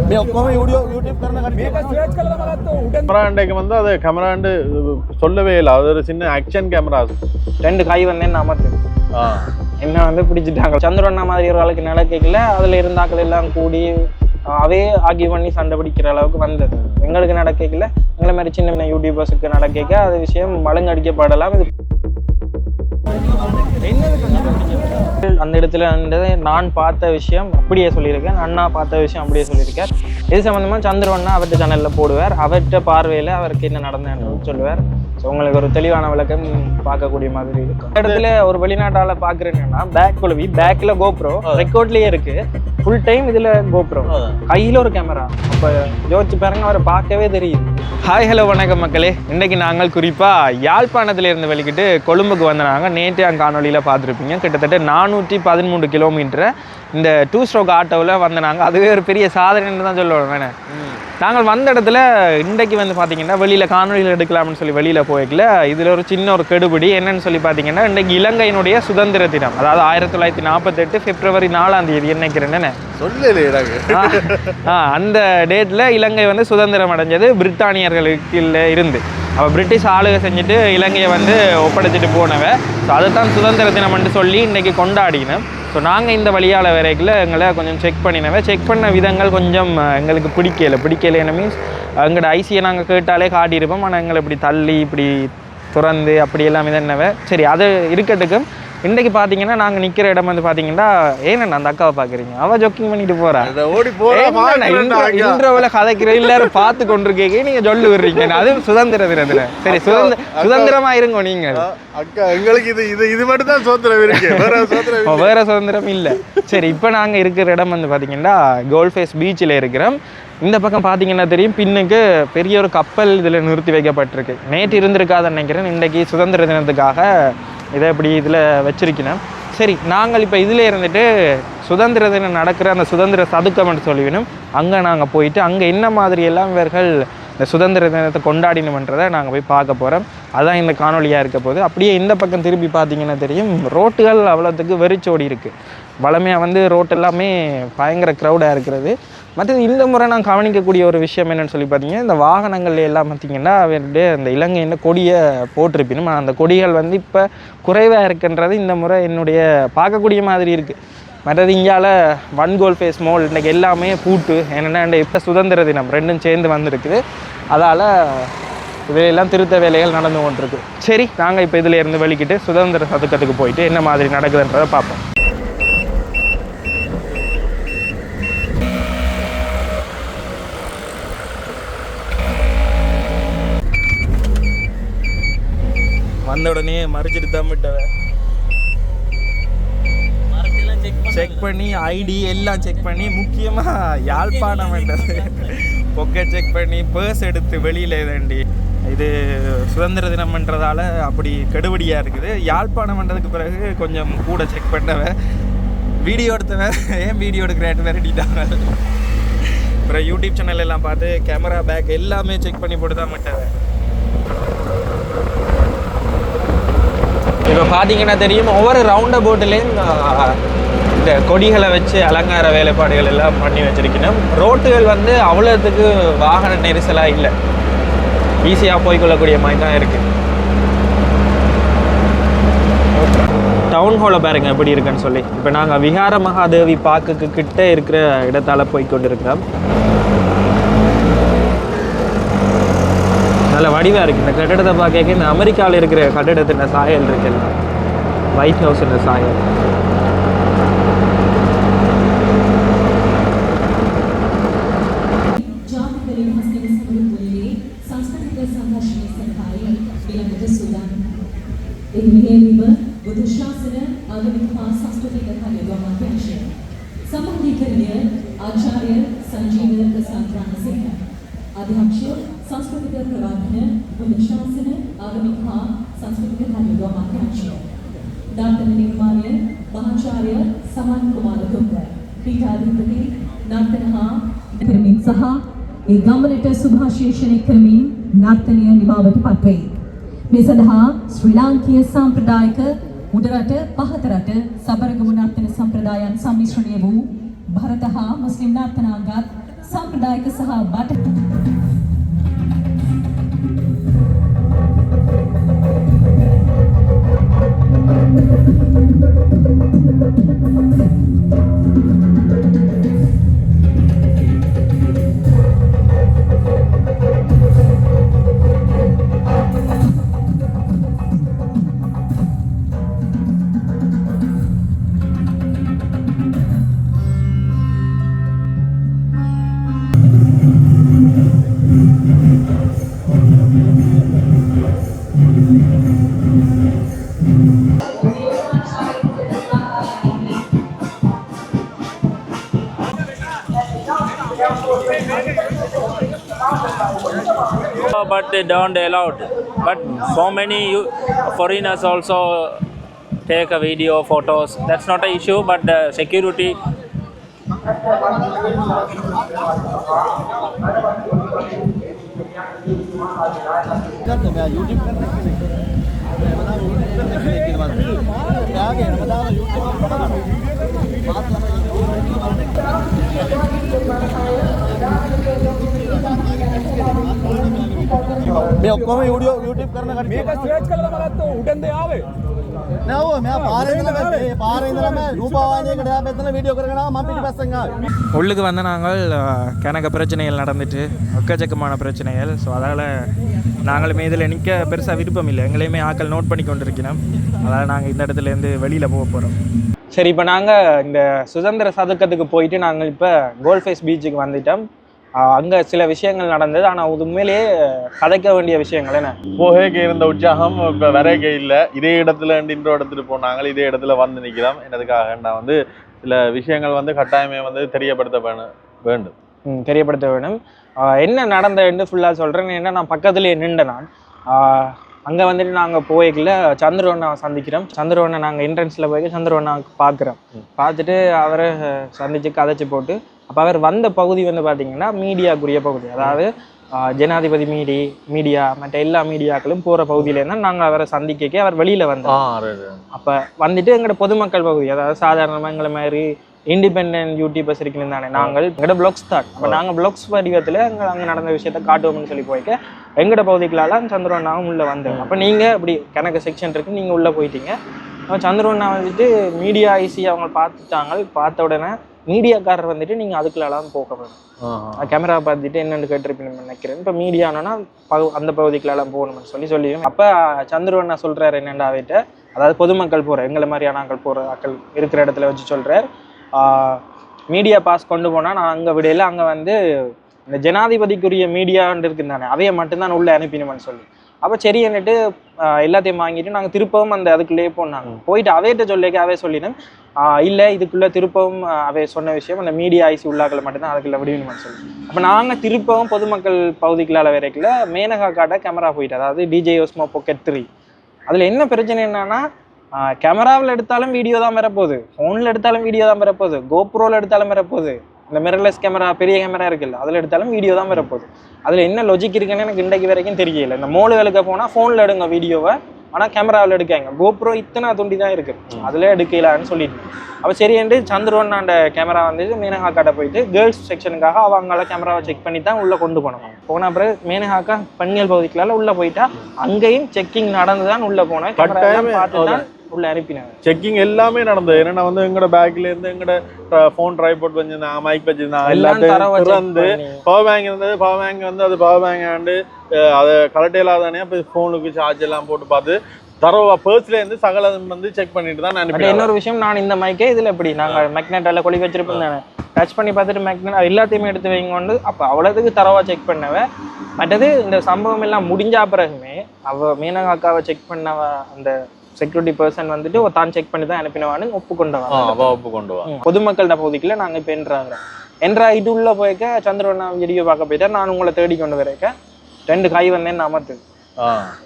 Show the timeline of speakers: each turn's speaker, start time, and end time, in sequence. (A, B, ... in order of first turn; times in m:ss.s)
0:00.3-0:01.5 A
0:01.8-0:07.1 B
0:07.6-0:08.8 C
0:09.1-0:09.5 B
0:09.8-0:13.9 C
0:14.5-0:21.7 C
0:16.8-0:17.1 B
0:23.8-1:00.5 C
0:34.2-0:35.0 B
0:38.0-0:38.2 B
0:41.4-0:41.7 B
0:44.1-0:44.4 B
1:00.7-1:01.0 B
1:01.2-1:12.8 C
1:13.0-1:14.6 B
1:13.9-1:43.5 C
1:43.4-1:46.8 B
1:44.1-1:51.6 C
1:47.9-1:48.6 B
1:49.4-1:50.8 B
1:51.5-1:55.3 B
1:54.1-2:48.3 C
1:56.1-1:56.7 B
2:48.9-2:55.0 C
3:06.2-3:07.9 C
3:10.6-3:25.1 C
3:26.0-3:28.7 C
3:29.8-3:33.5 C
3:37.5-3:40.4 C
3:40.9-3:47.3 C
3:48.4-3:50.0 C
3:53.0-3:59.4 C
4:03.5-4:07.6 C
4:08.3-4:09.4 C
4:15.3-4:21.0 D
4:21.9-4:26.5 D
4:27.1-4:31.0 D
4:31.6-4:37.6 D
4:38.3-4:49.7 D
4:50.3-5:01.0 D
5:39.8-5:40.1 D
5:47.9-5:52.4 E
5:53.3-5:56.6 E
6:04.6-6:05.0 A
6:20.0-6:20.4 A
6:20.4-6:20.6 B
6:23.1-6:24.2 D
6:25.1-6:25.9 A
6:26.8-6:27.2 D
6:28.1-6:33.0 C
6:33.6-6:39.4 C
6:39.9-6:44.6 C
6:45.2-6:47.4 C
6:48.0-6:49.2 C
6:49.4-6:59.1 B
6:59.5-7:22.2 C
7:22.0-7:22.8 B
7:22.9-7:37.6 C
7:34.9-7:35.3 B
7:38.1-7:44.2 C
7:44.4-7:44.9 B
7:44.8-7:59.6 C
8:00.3-8:05.0 C
8:05.5-8:20.5 C
8:21.1-8:22.2 C
8:22.8-8:53.4 C
8:51.4-8:52.4 B
8:53.4-9:09.1 B
8:58.4-9:00.0 C
9:08.7-9:16.4 C
9:17.0-9:31.9 C
9:24.9-9:25.9 B
9:32.5-9:33.6 C
9:34.0-9:34.3 B